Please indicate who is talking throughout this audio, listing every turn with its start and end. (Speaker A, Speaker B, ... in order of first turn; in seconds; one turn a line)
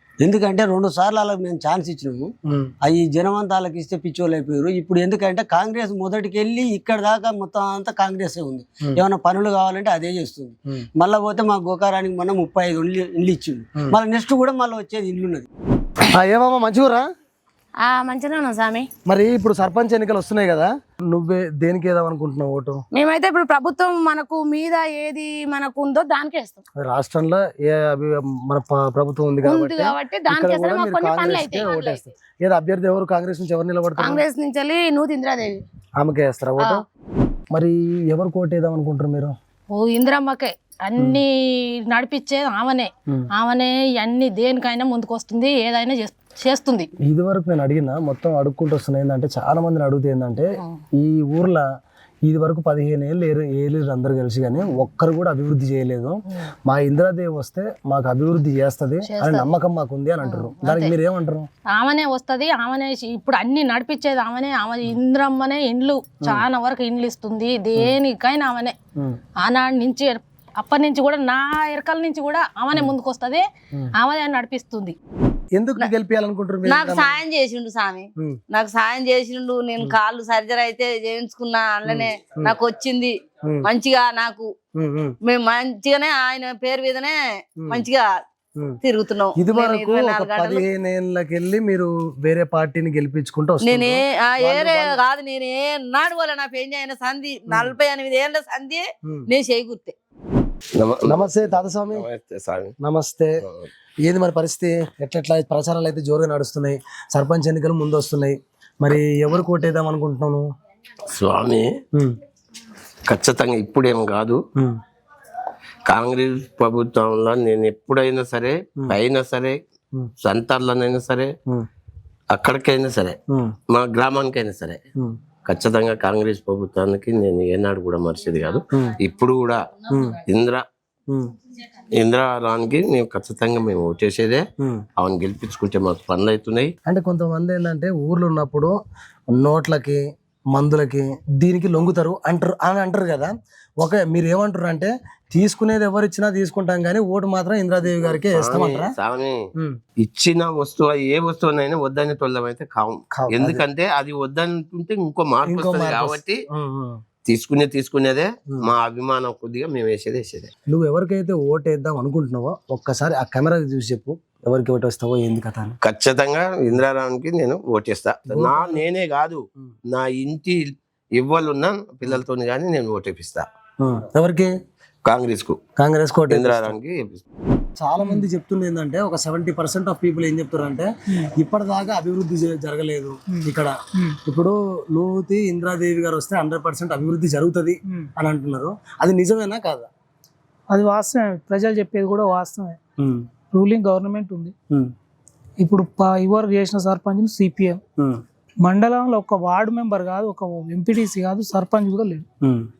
Speaker A: 0.2-2.3
Speaker A: 2.8-15.5
Speaker B: 16.1-17.0
Speaker C: 17.8-18.9
Speaker B: 19.1-22.8
Speaker C: 22.9-26.6
Speaker B: 26.8-34.2
Speaker C: 29.4-32.0
Speaker C: 34.0-35.5
Speaker B: 36.0-36.9
Speaker B: 37.5-39.3
Speaker D: 39.7-46.9
Speaker B: 47.0-51.7
Speaker B: 52.3-61.5
Speaker D: 59.0-59.5
Speaker D: 60.2-60.9
Speaker D: 61.7-68.8
Speaker D: 69.4-73.5
Speaker D: 74.0-75.0
Speaker B: 75.5-77.2
Speaker E: 76.7-83.1
Speaker B: 81.9-82.6
Speaker E: 83.7-84.5
Speaker B: 84.8-85.2
Speaker E: 85.2-87.1
Speaker B: 87.6-87.9
Speaker E: 87.7-88.1
Speaker E: 88.8-90.6
Speaker B: 89.4-95.0
Speaker E: 93.7-99.9
Speaker B: 97.5-97.8
Speaker F: 100.8-101.2
Speaker B: 101.0-102.1
Speaker F: 101.9-102.7
Speaker B: 102.8-103.4
Speaker B: 104.0-110.5
Speaker F: 111.1-111.7
Speaker F: 113.1-114.4
Speaker F: 115.9-119.6
Speaker F: 120.2-121.3
Speaker F: 122.3-123.2
Speaker F: 123.7-124.8
Speaker F: 125.5-129.6
Speaker B: 129.9-130.2
Speaker F: 130.2-130.6
Speaker F: 131.9-134.4
Speaker F: 135.0-136.7
Speaker B: 136.9-138.7
Speaker B: 139.3-148.9
Speaker F: 148.1-149.4
Speaker F: 150.0-156.4
Speaker B: 153.1-153.6
Speaker B: 155.4-157.0
Speaker F: 157.3-160.5
Speaker B: 160.7-165.8
Speaker F: 165.8-173.5
Speaker B: 168.3-168.8
Speaker B: 173.8-174.5
Speaker F: 175.1-175.6
Speaker B: 175.8-176.8
Speaker F: 176.3-177.2
Speaker B: 177.8-189.9
Speaker G: 178.0-178.2
Speaker G: 183.3-184.2
Speaker G: 190.7-192.8
Speaker B: 193.0-193.2
Speaker G: 193.5-194.5
Speaker G: 195.6-197.8
Speaker G: 198.6-202.3
Speaker B: 202.4-202.7